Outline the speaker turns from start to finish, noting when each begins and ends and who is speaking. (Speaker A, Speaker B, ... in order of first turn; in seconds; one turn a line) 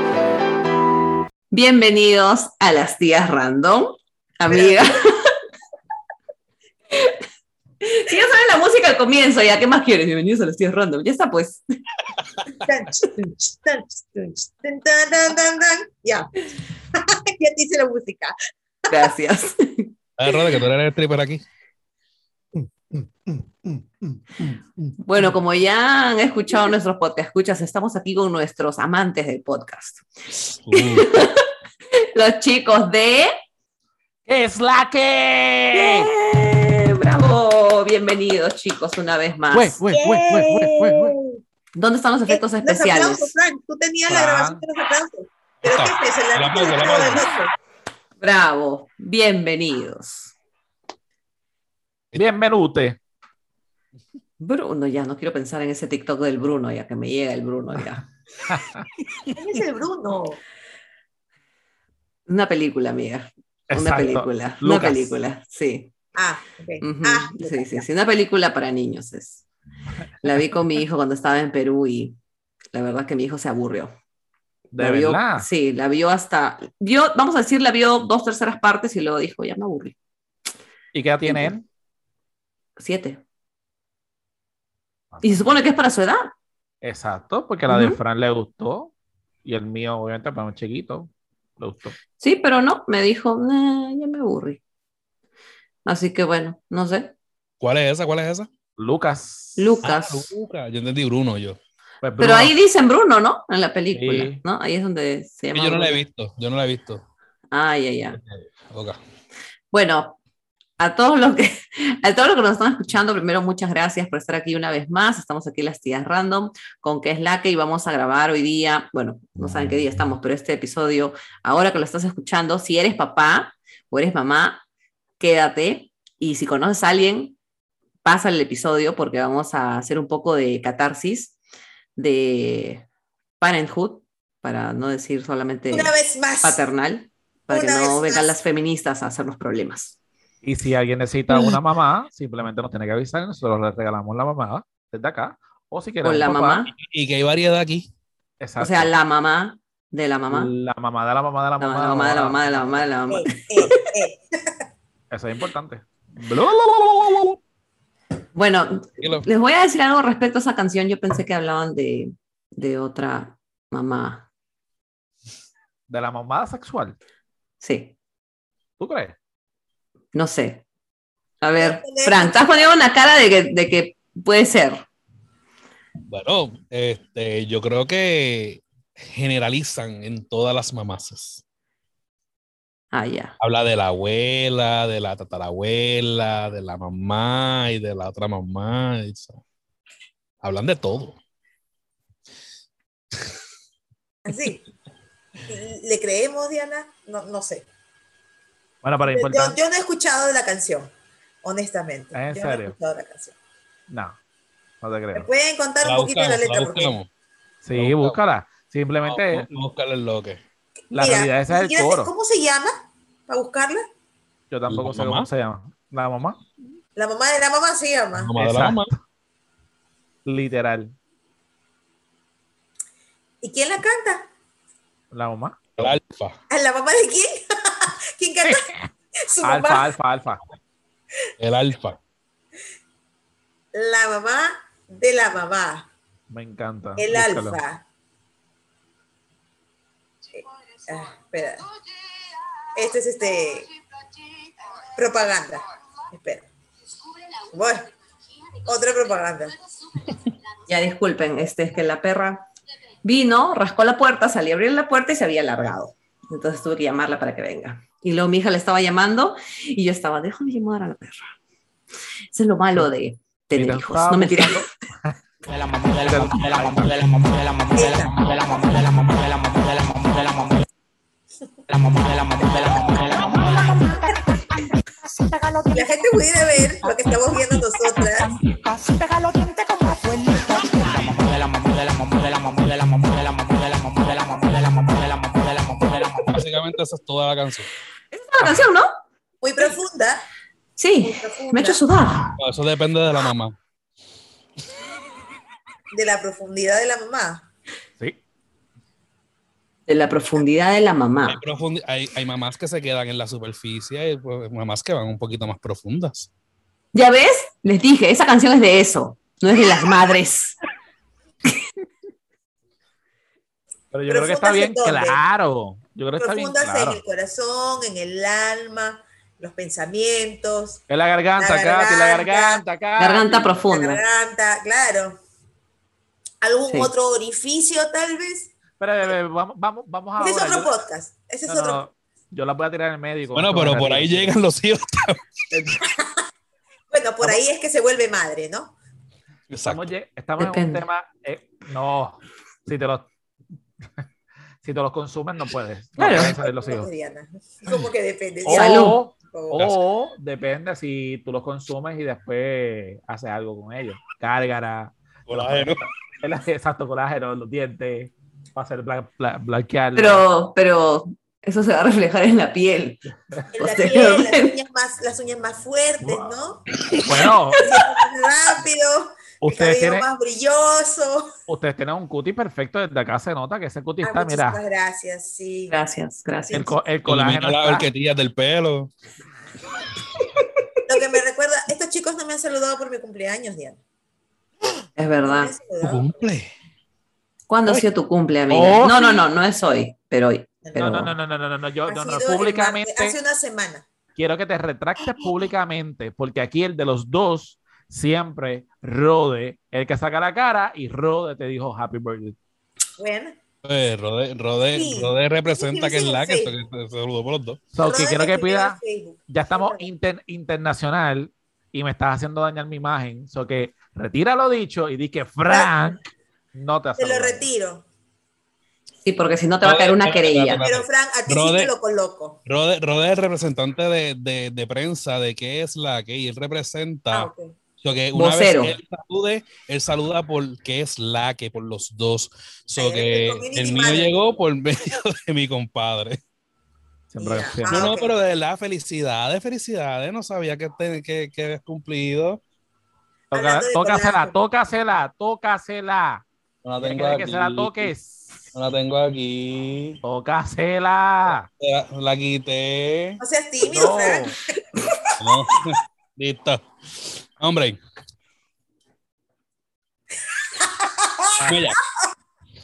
Speaker A: 1.5-5.3
Speaker B: 4.5-4.8
Speaker A: 6.9-7.2
Speaker A: 7.8-11.6
Speaker B: 12.6-18.3
Speaker A: 18.9-19.9
Speaker C: 20.2-21.4
Speaker A: 25.0-30.1
Speaker C: 30.3-31.1
Speaker A: 30.7-33.3
Speaker D: 34.2-36.1
Speaker A: 35.7-39.8
Speaker D: 39.5-41.1
Speaker B: 39.9-41.4
Speaker A: 41.7-43.3
Speaker B: 42.3-47.5
Speaker D: 44.1-44.6
Speaker C: 45.6-47.3
Speaker A: 48.2-50.3
Speaker D: 52.1-53.0
Speaker A: 54.4-58.0
Speaker D: 58.5-59.3
Speaker B: 59.3-60.4
Speaker A: 62.3-65.9
Speaker D: 63.7-65.1
Speaker B: 66.2-67.8
Speaker A: 66.8-69.4
Speaker A: 70.2-72.2
Speaker A: 72.7-73.9
Speaker D: 74.7-75.5
Speaker A: 74.8-80.0
Speaker D: 80.9-81.6
Speaker A: 81.2-81.5
Speaker A: 82.8-83.2
Speaker D: 85.1-85.5
Speaker A: 85.2-86.3
Speaker D: 86.8-88.9
Speaker A: 87.7-88.0
Speaker D: 89.4-92.0
Speaker A: 92.2-94.6
Speaker A: 95.8-97.1
Speaker C: 97.6-98.5
Speaker D: 98.8-99.7
Speaker A: 99.6-100.3
Speaker C: 99.8-101.6
Speaker D: 102.0-102.5
Speaker A: 102.2-106.0
Speaker D: 103.9-104.4
Speaker C: 105.5-107.0
Speaker A: 107.5-108.2
Speaker C: 108.2-109.0
Speaker A: 109.7-110.2
Speaker A: 110.8-124.6
Speaker A: 125.2-127.3
Speaker A: 128.0-131.3
Speaker A: 131.9-132.8
Speaker A: 133.4-139.9
Speaker B: 135.7-136.6
Speaker B: 137.5-138.4
Speaker D: 140.4-146.6
Speaker A: 146.0-146.7
Speaker C: 146.8-147.9
Speaker D: 148.4-148.9
Speaker A: 148.6-150.5
Speaker D: 150.3-152.9
Speaker A: 151.6-153.9
Speaker B: 153.1-154.2
Speaker D: 155.1-157.4
Speaker A: 158.3-164.3
Speaker C: 159.0-159.3
Speaker D: 165.9-166.9
Speaker A: 167.6-167.9
Speaker D: 168.8-169.1
Speaker A: 170.1-170.6
Speaker A: 171.4-174.8
Speaker B: 171.6-172.7
Speaker C: 176.1-181.4
Speaker A: 182.9-183.3
Speaker C: 183.4-189.4
Speaker C: 190.4-191.2
Speaker B: 194.2-194.6
Speaker B: 195.5-197.7
Speaker D: 198.8-199.6
Speaker B: 199.1-200.9
Speaker B: 201.4-203.3
Speaker D: 202.1-202.8
Speaker D: 203.9-204.2
Speaker D: 204.8-205.3
Speaker B: 205.1-207.0
Speaker C: 205.8-207.1
Speaker D: 207.6-209.4
Speaker C: 207.7-208.2
Speaker C: 209.0-210.4
Speaker B: 210.9-212.7
Speaker D: 210.9-212.1
Speaker B: 213.3-213.8
Speaker D: 214.5-216.4
Speaker C: 214.7-215.3
Speaker B: 216.9-218.3
Speaker C: 218.1-218.9
Speaker D: 218.3-219.0
Speaker D: 220.2-220.9
Speaker B: 223.4-224.2
Speaker D: 225.1-226.0
Speaker C: 225.8-226.4
Speaker B: 226.5-228.7
Speaker D: 228.4-228.9
Speaker B: 229.3-229.8
Speaker D: 229.4-230.4
Speaker C: 231.4-232.0
Speaker B: 233.7-235.9
Speaker D: 236.3-237.6
Speaker B: 237.0-237.8
Speaker B: 240.3-241.7
Speaker B: 242.7-243.7
Speaker B: 244.9-246.5
Speaker B: 247.5-247.9
Speaker B: 248.6-249.6
Speaker A: 250.7-252.5
Speaker A: 253.0-261.3
Speaker A: 262.3-264.7
Speaker D: 263.5-265.1
Speaker E: 265.5-270.6
Speaker D: 266.1-267.0
Speaker B: 267.8-268.1
Speaker E: 271.7-286.4
Speaker B: 275.7-278.3
Speaker C: 286.3-287.7
Speaker A: 288.1-288.9
Speaker B: 289.4-290.2
Speaker A: 290.8-292.4
Speaker B: 291.0-291.8
Speaker C: 292.4-293.6
Speaker B: 295.9-297.4
Speaker A: 299.9-301.4
Speaker C: 301.2-306.3
Speaker A: 306.9-310.5
Speaker D: 313.9-317.0
Speaker B: 314.1-315.2
Speaker B: 316.2-320.8
Speaker D: 320.9-323.6
Speaker B: 321.4-322.6
Speaker A: 323.0-324.0
Speaker B: 323.7-325.2
Speaker B: 326.4-328.5
Speaker A: 326.6-326.9
Speaker D: 328.8-330.7
Speaker B: 330.2-331.8
Speaker D: 331.5-334.4
Speaker C: 333.3-335.7
Speaker B: 335.5-336.0
Speaker B: 336.9-338.7
Speaker C: 339.5-339.9
Speaker D: 339.6-343.1
Speaker A: 340.4-340.8
Speaker D: 344.6-346.9
Speaker A: 346.0-346.3
Speaker B: 346.1-349.6
Speaker D: 348.4-360.2
Speaker A: 348.5-349.0
Speaker C: 355.3-355.8
Speaker A: 359.9-363.0
Speaker B: 363.5-366.6
Speaker A: 363.5-364.6
Speaker D: 366.0-366.3
Speaker D: 367.0-367.6
Speaker B: 367.6-371.3
Speaker D: 369.4-370.1
Speaker D: 371.5-374.6
Speaker B: 374.0-375.7
Speaker A: 375.7-376.7
Speaker D: 376.5-377.9
Speaker C: 377.0-378.9
Speaker B: 380.9-383.8
Speaker A: 384.9-385.5
Speaker B: 385.2-386.3
Speaker C: 385.8-386.5
Speaker A: 387.5-391.1
Speaker D: 388.5-389.2
Speaker B: 390.6-391.1
Speaker D: 390.7-393.1
Speaker B: 391.9-393.8
Speaker D: 394.1-402.4
Speaker B: 403.0-403.4
Speaker C: 403.6-407.6
Speaker B: 404.7-406.5
Speaker D: 407.7-416.0
Speaker B: 407.8-409.8
Speaker B: 415.5-415.9
Speaker D: 416.5-417.5
Speaker B: 417.0-417.8
Speaker A: 419.0-420.6
Speaker C: 419.6-421.7
Speaker B: 420.6-422.4
Speaker C: 422.4-427.3
Speaker B: 427.1-427.5
Speaker C: 427.8-436.2
Speaker A: 428.1-428.7
Speaker B: 432.8-434.2
Speaker D: 437.1-437.9
Speaker B: 437.2-438.1
Speaker C: 437.7-442.4
Speaker B: 443.3-444.4
Speaker D: 443.3-446.2
Speaker C: 446.6-447.9
Speaker D: 446.8-448.4
Speaker C: 448.5-450.0
Speaker D: 450.0-451.5
Speaker C: 451.6-453.2
Speaker B: 453.2-455.2
Speaker D: 453.6-454.4
Speaker C: 455.2-457.8
Speaker B: 460.6-461.8
Speaker C: 461.4-461.8